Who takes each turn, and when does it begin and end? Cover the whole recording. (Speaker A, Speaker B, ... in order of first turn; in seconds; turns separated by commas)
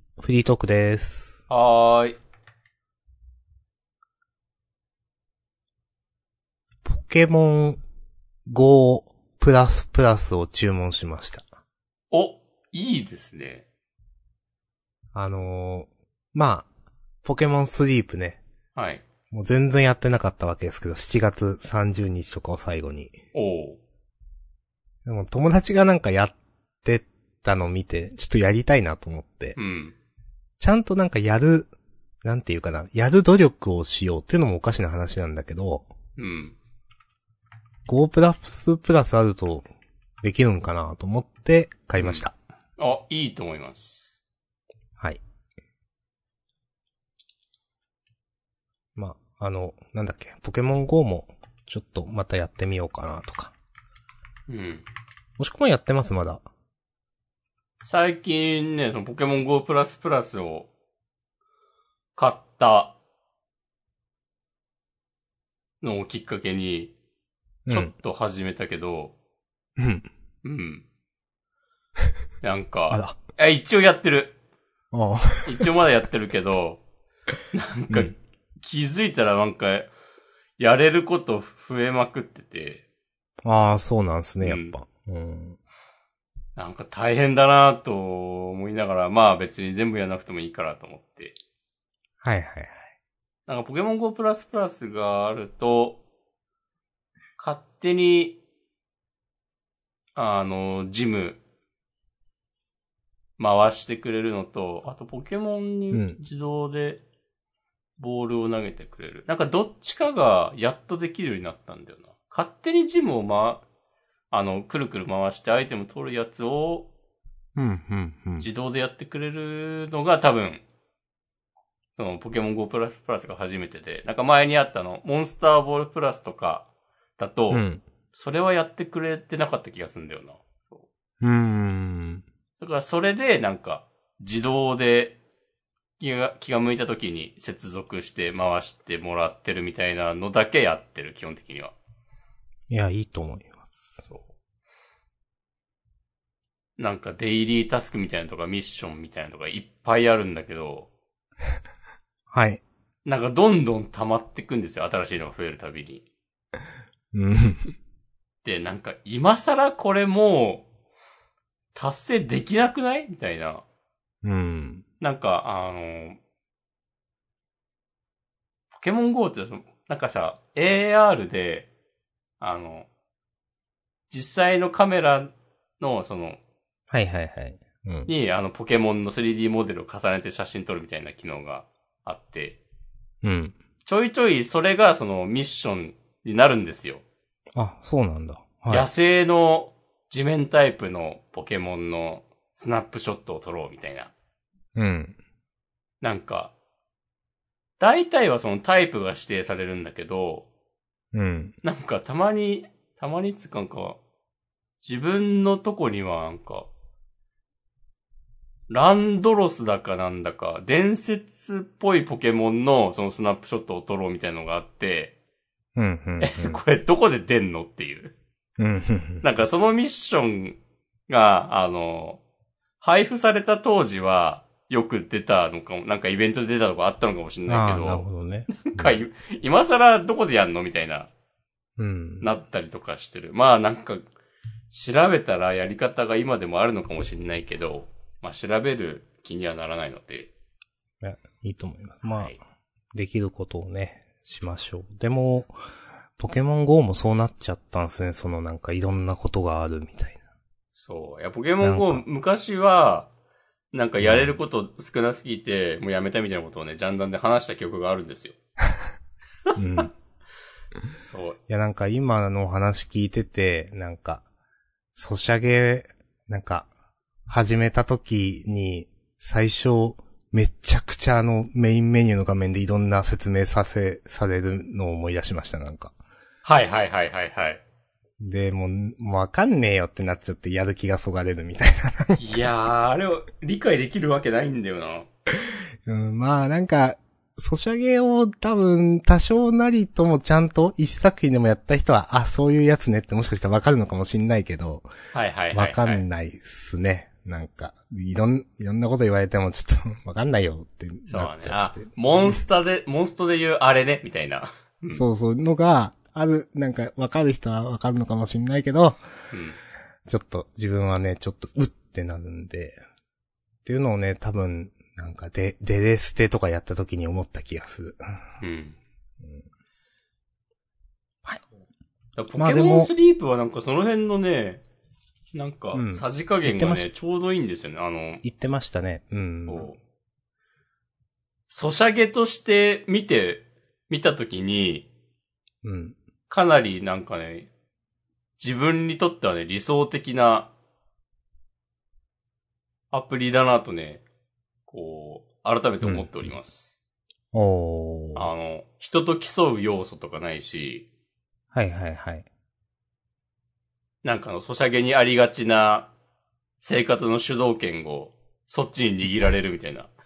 Speaker A: 0.2-1.4, Speaker B: 1.5-2.1, Speaker A: 6.8-7.8, Speaker A: 8.4-11.4, Speaker B: 12.1-13.6, Speaker A: 15.1-16.7, Speaker A: 17.2-18.4, Speaker B: 18.7-19.0, Speaker A: 19.3-23.1, Speaker B: 23.3-23.8, Speaker A: 25.0-29.6, Speaker B: 29.6-29.9, Speaker A: 30.6-31.7, Speaker A: 32.2-35.9, Speaker B: 36.2-36.5, Speaker A: 37.9-39.6, Speaker A: 40.2-42.3, Speaker B: 42.0-42.2, Speaker B: 42.8-44.1, Speaker A: 49.0-53.5, Speaker B: 54.5-54.8, Speaker A: 55.4-56.4, Speaker B: 57.8-60.7, Speaker B: 62.1-62.9, Speaker B: 65.8-66.9, Speaker A: 67.7-67.9, Speaker B: 67.7-69.1, Speaker A: 69.8-70.0, Speaker B: 70.4-70.8, Speaker B: 72.4-74.3, Speaker A: 72.9-73.2, Speaker A: 74.9-75.5, Speaker B: 75.4-76.8, Speaker B: 77.5-79.9, Speaker B: 80.6-82.8, Speaker A: 83.4-85.6, Speaker B: 84.4-84.7, Speaker B: 86.5-91.3, Speaker A: 92.2-92.8, Speaker B: 93.5-96.0, Speaker B: 97.4-98.4, Speaker B: 100.2-101.4, Speaker B: 103.4-107.0, Speaker A: 105.9-106.2, Speaker B: 108.0-113.6, Speaker B: 114.3-116.9, Speaker A: 117.5-118.5, Speaker B: 118.4-120.6, Speaker B: 122.0-126.7, Speaker B: 127.2-130.8, Speaker A: 127.5-127.8, Speaker A: 131.2-132.2, Speaker B: 132.6-135.2, Speaker B: 136.0-141.7, Speaker A: 142.7-143.7, Speaker B: 144.0-144.3, Speaker B: 146.8-150.9, Speaker A: 152.3-152.6, Speaker B: 153.1-156.0, Speaker A: 157.1-157.7, Speaker B: 158.4-160.6, Speaker B: 161.7-163.6, Speaker A: 164.2-164.8, Speaker B: 165.0-166.2, Speaker B: 168.7-171.7, Speaker B: 172.4-172.9, Speaker B: 174.1-176.4, Speaker A: 176.9-178.1, Speaker B: 178.1-182.6, Speaker A: 183.2-183.5, Speaker B: 183.8-187.0, Speaker A: 187.5-188.9, Speaker B: 188.7-194.1, Speaker A: 194.8-195.2, Speaker B: 196.0-196.5, Speaker B: 197.8-200.4, Speaker A: 201.1-201.5, Speaker B: 201.6-204.0, Speaker B: 204.8-206.7, Speaker B: 208.7-215.1, Speaker A: 215.8-216.6, Speaker B: 216.2-218.1, Speaker A: 218.6-219.2, Speaker B: 219.2-220.6, Speaker B: 221.1-222.2, Speaker B: 222.8-231.1, Speaker A: 227.5-229.0, Speaker A: 231.8-232.3, Speaker B: 232.2-234.0, Speaker B: 234.7-240.3, Speaker A: 241.0-242.4, Speaker B: 242.1-242.4, Speaker A: 242.9-245.5, Speaker A: 246.2-250.2, Speaker B: 250.7-253.1, Speaker A: 251.6-252.0, Speaker B: 253.7-258.3, Speaker A: 254.0-254.4, Speaker A: 259.6-259.9, Speaker B: 261.0-261.4, Speaker A: 261.5-264.2, Speaker A: 264.9-266.7, Speaker A: 267.3-275.9, Speaker B: 276.4-277.6, Speaker A: 278.2-282.4, Speaker B: 282.2-285.1, Speaker A: 285.8-294.9, Speaker B: 295.1-296.0, Speaker A: 295.5-302.4, Speaker B: 301.1-305.1, Speaker A: 304.9-309.0, Speaker B: 309.3-309.6, Speaker A: 310.1-312.8, Speaker A: 313.6-318.0, Speaker B: 318.4-318.8, Speaker B: 322.2-324.6, Speaker A: 322.4-322.9, Speaker B: 325.3-328.2, Speaker A: 325.7-326.9, Speaker A: 328.2-329.7, Speaker B: 329.4-329.8, Speaker B: 331.5-334.9, Speaker A: 335.6-335.9, Speaker B: 336.3-337.5, Speaker B: 338.4-340.5, Speaker B: 342.9-344.0, Speaker B: 344.7-346.8, Speaker A: 345.8-346.3, Speaker A: 347.3-348.3, Speaker B: 348.1-350.9, Speaker A: 351.5-352.3, Speaker B: 354.0-355.9, Speaker B: 356.6-359.9